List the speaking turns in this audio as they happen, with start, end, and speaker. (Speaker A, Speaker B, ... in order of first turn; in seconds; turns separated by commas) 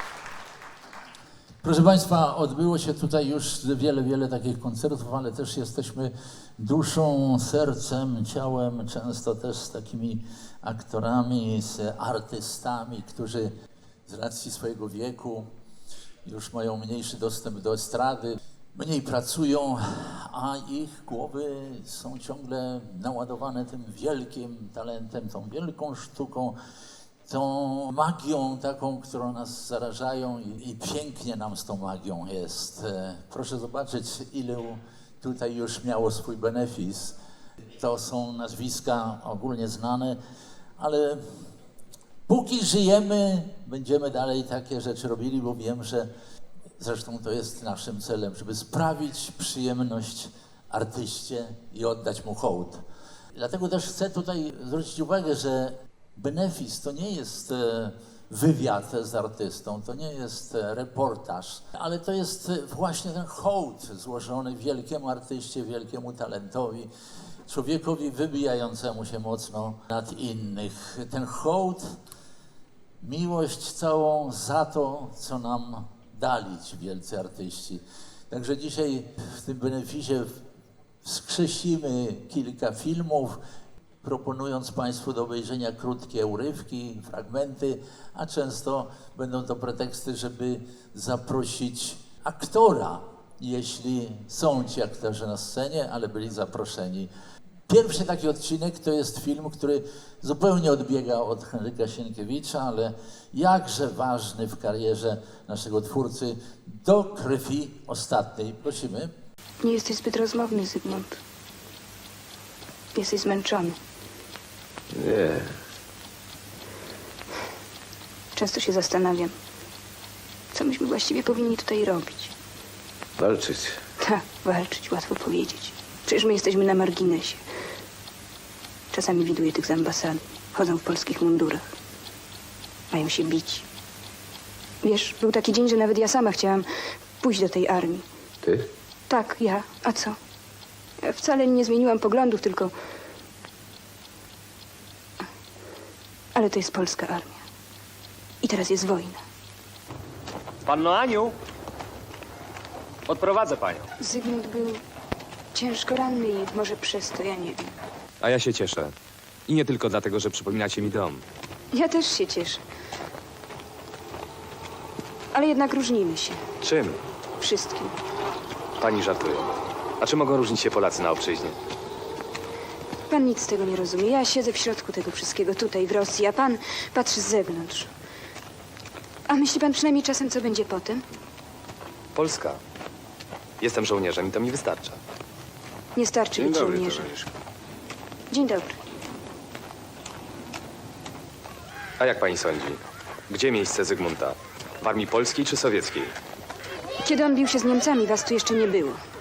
Speaker A: 1.6-13.5, Speaker A: 14.1-15.5, Speaker A: 16.2-26.6, Speaker A: 27.2-37.1, Speaker A: 37.8-40.2, Speaker A: 40.8-41.5, Speaker A: 42.3-46.1, Speaker A: 46.8-66.9, Speaker A: 67.5-71.9, Speaker A: 73.0-80.4, Speaker A: 81.0-83.4, Speaker A: 84.0-97.1, Speaker A: 97.7-109.1, Speaker B: 109.6-111.2, Speaker B: 113.0-113.8, Speaker B: 118.3-119.3, Speaker B: 120.5-122.3, Speaker B: 124.0-127.4, Speaker B: 128.9-131.6, Speaker B: 132.9-133.6, Speaker B: 134.8-136.7, Speaker B: 137.2-138.0, Speaker B: 139.1-140.2, Speaker B: 141.0-142.7, Speaker B: 146.3-147.4, Speaker B: 148.4-149.2, Speaker C: 150.7-151.3, Speaker C: 153.1-153.8, Speaker B: 154.0-154.8, Speaker B: 155.5-157.7, Speaker C: 158.2-158.9, Speaker C: 159.5-161.2, Speaker B: 161.7-162.6, Speaker B: 165.3-166.4, Speaker C: 166.6-167.0, Speaker B: 167.4-167.9, Speaker C: 168.8-169.5, Speaker C: 170.0-171.6, Speaker B: 173.1-177.9, Speaker B: 179.3-181.0, Speaker C: 182.2-182.6, Speaker C: 183.6-185.0, Speaker B: 185.9-187.2, Speaker C: 186.4-187.2, Speaker B: 188.3-188.8, Speaker C: 192.0-196.1, Speaker B: 197.0-199.0